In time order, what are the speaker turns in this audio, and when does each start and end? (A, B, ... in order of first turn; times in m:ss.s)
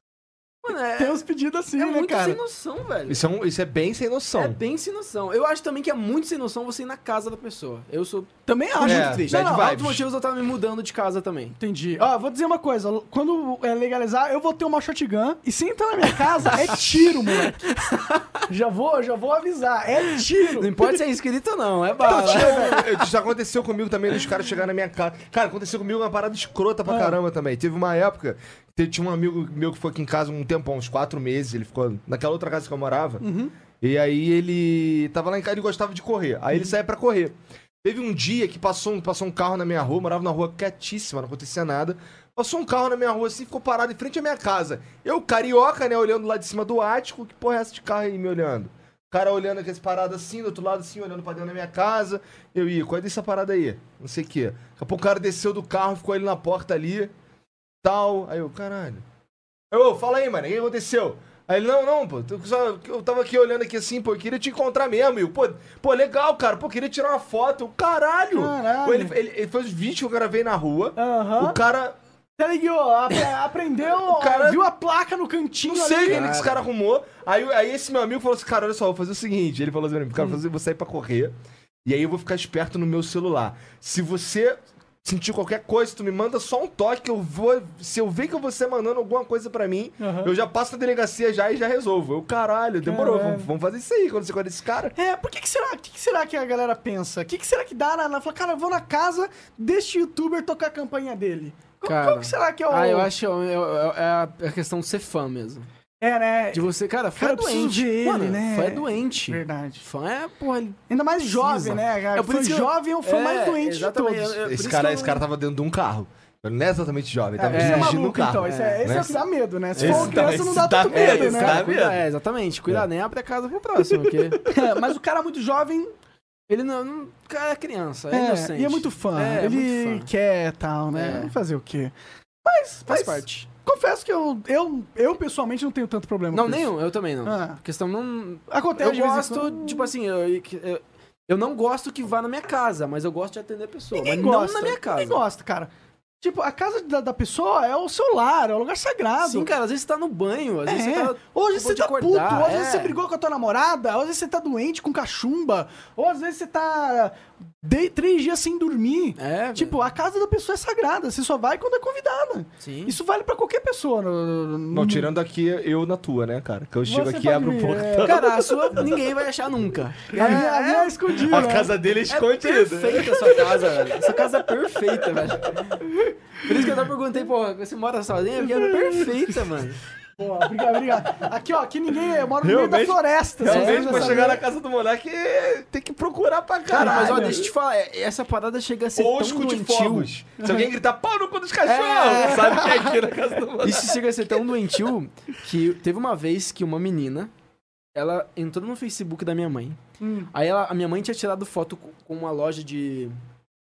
0:00.6-0:01.2 A
0:01.0-0:02.4 B
0:01.8-0:03.2 A
0:03.1-0:04.6 C
0:04.4-0:11.6 A
0:08.5-0:09.7 B
0:08.8-0:10.0 C
0:11.6-0:17.8 B
0:17.6-0:18.3 A
0:18.5-0:21.0 B
0:20.6-0:22.8 A
0:22.0-0:22.8 B
0:22.0-0:33.3 C
0:26.9-0:27.2 B
0:33.2-0:33.5 B
0:33.8-0:57.1 C
0:57.8-0:59.0 C
0:59.7-1:12.0 C
1:08.3-1:09.1 B
1:11.0-1:11.6 B
1:12.4-1:16.3 B
1:14.0-1:14.6 C
1:15.6-1:34.9 C
1:16.0-1:16.6 A
1:30.0-1:30.3 B
1:32.8-1:33.5 B
1:35.0-1:43.1 B
1:41.8-1:45.7 A
1:46.0-1:49.8 B
1:46.5-1:55.2 A
1:50.9-1:54.4 B
1:54.4-1:59.1 C
1:57.4-2:01.6 B
1:57.5-1:59.2 A
1:59.7-2:04.4 A
1:59.8-2:02.1 C
2:03.8-2:04.4 C
2:04.5-2:05.9 B
2:06.5-2:10.1 A
2:08.1-2:11.9 B
2:11.0-2:11.3 A
2:12.4-2:17.6 B
2:12.8-2:13.5 A
2:16.3-2:25.2 A
2:18.5-2:19.9 B
2:23.9-2:25.7 B
2:26.2-2:29.5 B
2:29.2-2:33.0 A
2:30.7-2:45.1 B
2:39.2-2:39.8 A
2:42.6-2:43.0 A
2:44.7-2:48.2 C
2:46.9-2:48.3 B
2:48.0-2:51.0 A
2:50.1-2:50.5 C
2:50.1-2:51.7 B
2:51.2-2:53.6 C
2:52.1-2:55.9 A
2:56.4-2:59.8 A
2:58.5-2:59.1 B
3:00.2-3:04.4 B
3:02.4-3:07.5 C
3:03.5-3:04.2 A
3:06.7-3:10.1 A
3:06.7-3:07.4 B
3:09.0-3:14.1 C
3:11.7-3:12.6 A
3:12.3-3:12.8 B
3:13.6-3:17.3 A
3:18.0-3:19.8 A
3:20.0-3:20.3 B
3:20.3-3:23.1 A